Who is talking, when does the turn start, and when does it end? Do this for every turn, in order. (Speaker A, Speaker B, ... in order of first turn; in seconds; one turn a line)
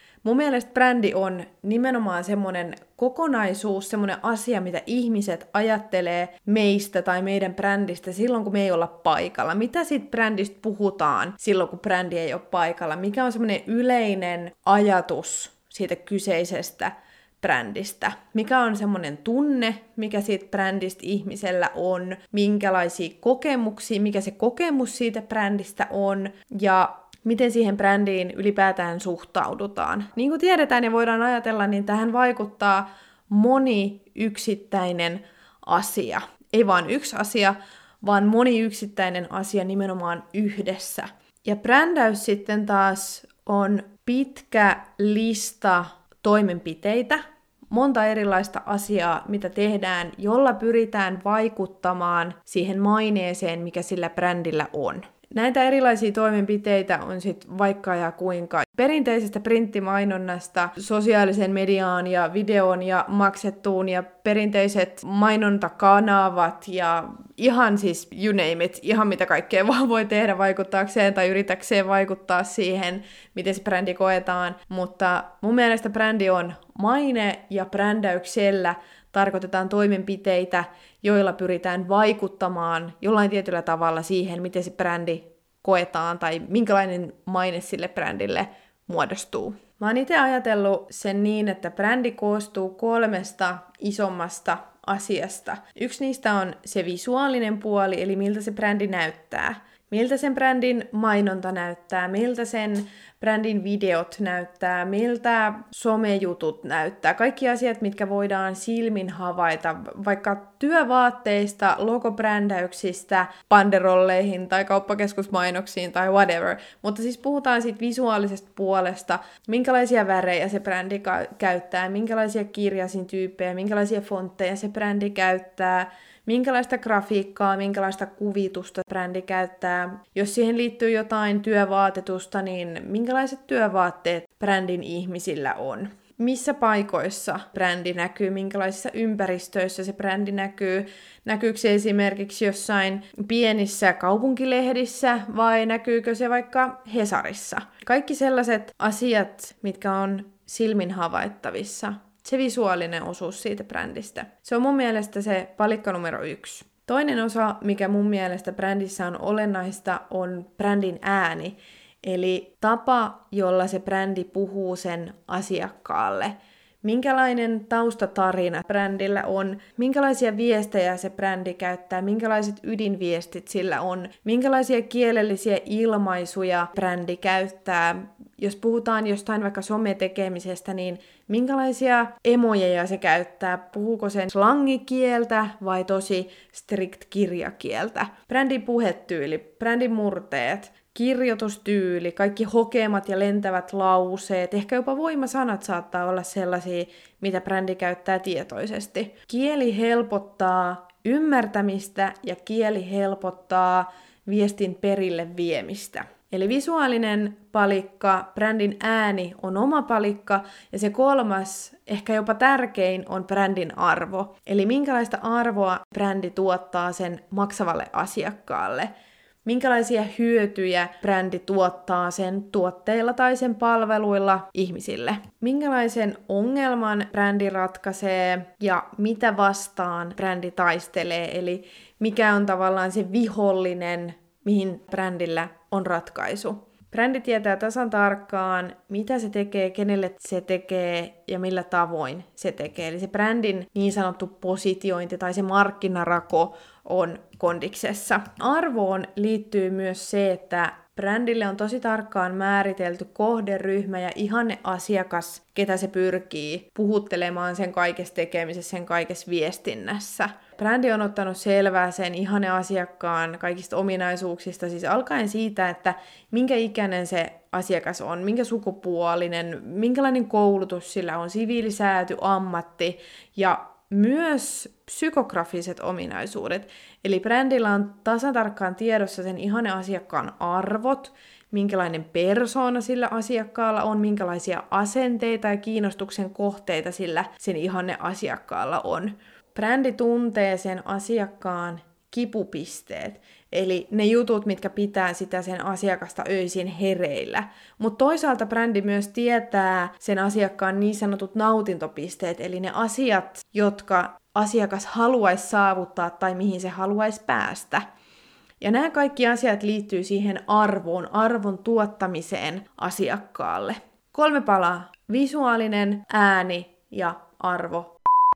Speaker A: 0.2-218.9
Speaker A: 219.4-307.9
Speaker A: 308.6-317.9